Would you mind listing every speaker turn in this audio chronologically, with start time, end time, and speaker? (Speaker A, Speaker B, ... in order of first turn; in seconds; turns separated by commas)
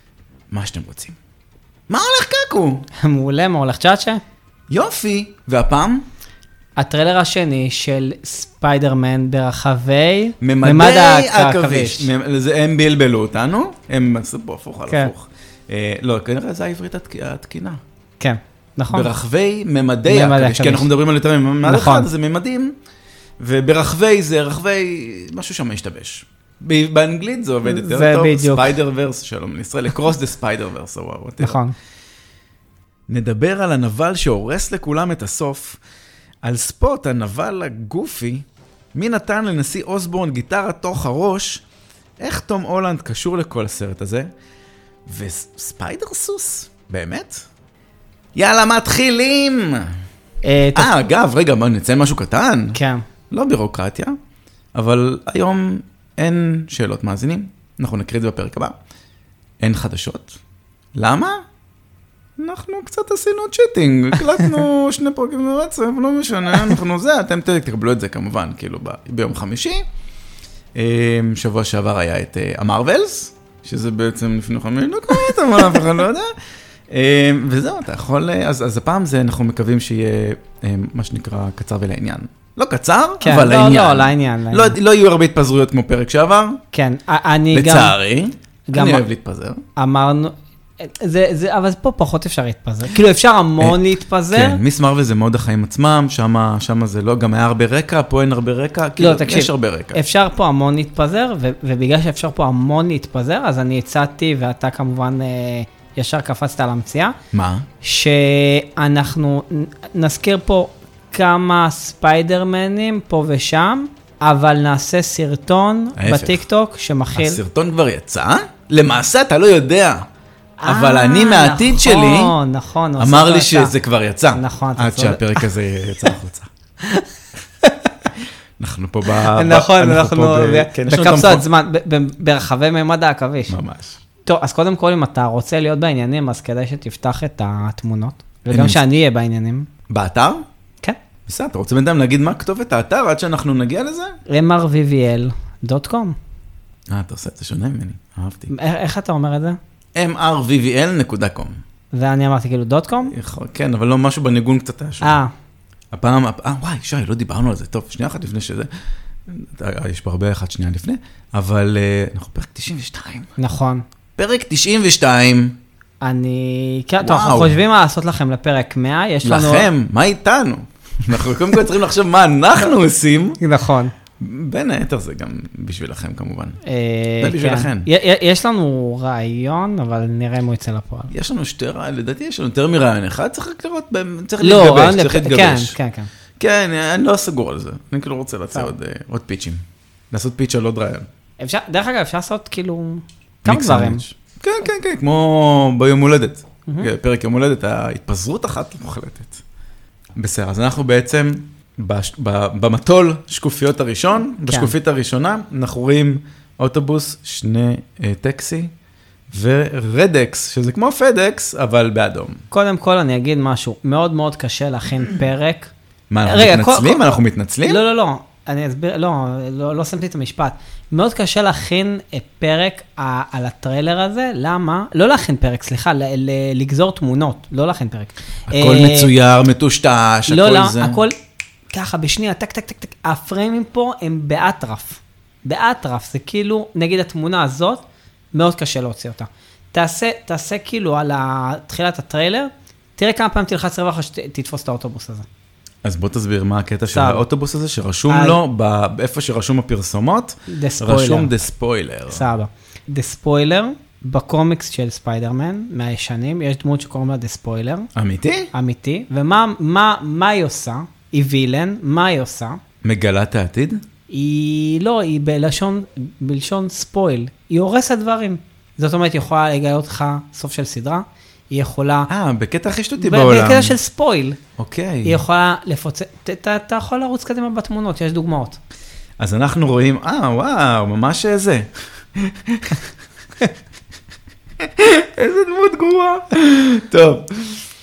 Speaker A: 0.5-1.2, Speaker A: 1.9-2.9, Speaker B: 3.0-4.2, Speaker A: 4.7-6.0, Speaker B: 6.8-12.1, Speaker A: 10.4-17.8, Speaker B: 18.2-19.1, Speaker A: 18.9-22.7, Speaker B: 20.1-20.9, Speaker B: 21.6-22.1, Speaker A: 23.4-31.6, Speaker B: 27.6-28.8, Speaker B: 31.4-31.8, Speaker A: 33.1-35.8, Speaker A: 36.4-41.6, Speaker A: 42.2-44.3, Speaker A: 45.1-47.5, Speaker A: 48.4-49.9, Speaker B: 50.4-51.1, Speaker A: 50.8-52.8, Speaker B: 52.8-53.0, Speaker A: 53.3-54.1, Speaker A: 54.7-58.7, Speaker A: 59.6-60.4, Speaker A: 61.0-61.4, Speaker A: 62.4-69.8, Speaker A: 70.8-76.3, Speaker B: 75.3-75.7, Speaker A: 76.9-86.6, Speaker B: 83.2-84.8, Speaker B: 86.7-88.0, Speaker A: 87.5-89.6, Speaker B: 88.7-89.0, Speaker B: 89.8-94.6, Speaker A: 94.3-100.0, Speaker B: 99.0-107.2, Speaker A: 107.3-107.7, Speaker B: 107.8-117.4, Speaker A: 116.0-116.4, Speaker A: 117.1-120.1, Speaker B: 120.6-123.7, Speaker A: 120.7-122.3, Speaker A: 123.0-126.5, Speaker B: 124.3-125.5, Speaker B: 126.8-127.1, Speaker B: 127.6-128.1, Speaker A: 128.6-131.4, Speaker B: 129.1-133.6, Speaker A: 133.5-134.0, Speaker B: 134.3-139.7, Speaker A: 138.5-138.8, Speaker A: 139.9-140.4, Speaker A: 141.3-144.2, Speaker B: 144.3-146.2, Speaker A: 146.9-148.5, Speaker B: 148.5-149.6, Speaker A: 150.0-151.6, Speaker B: 151.9-153.1, Speaker A: 153.1-155.2, Speaker B: 155.0-155.3, Speaker A: 155.9-158.7, Speaker A: 159.3-163.3, Speaker B: 163.4-163.8, Speaker A: 164.2-165.6, Speaker B: 166.0-169.7, Speaker A: 167.0-167.6, Speaker A: 169.2-173.4, Speaker B: 173.4-173.9, Speaker A: 174.2-176.6, Speaker B: 176.7-181.1, Speaker A: 177.2-177.9, Speaker A: 181.1-185.8, Speaker B: 184.4-186.1, Speaker A: 186.4-191.1, Speaker B: 191.4-194.0, Speaker A: 193.5-199.4, Speaker A: 200.2-208.7, Speaker B: 204.4-204.7, Speaker A: 209.3-212.4, Speaker B: 212.5-215.7, Speaker A: 216.1-217.8, Speaker B: 216.2-229.1, Speaker A: 228.5-231.0, Speaker B: 230.3-231.2, Speaker B: 231.7-245.3, Speaker A: 245.8-252.3, Speaker B: 246.9-247.2, Speaker B: 248.1-248.4, Speaker B: 250.5-251.3, Speaker B: 252.1-257.9, Speaker A: 257.9-258.5, Speaker B: 258.5-262.6, Speaker A: 262.8-263.8, Speaker B: 264.1-272.1, Speaker A: 272.1-273.8, Speaker B: 273.0-274.4, Speaker A: 274.6-275.2, Speaker B: 275.1-278.6, Speaker A: 279.2-282.9, Speaker A: 284.6-287.6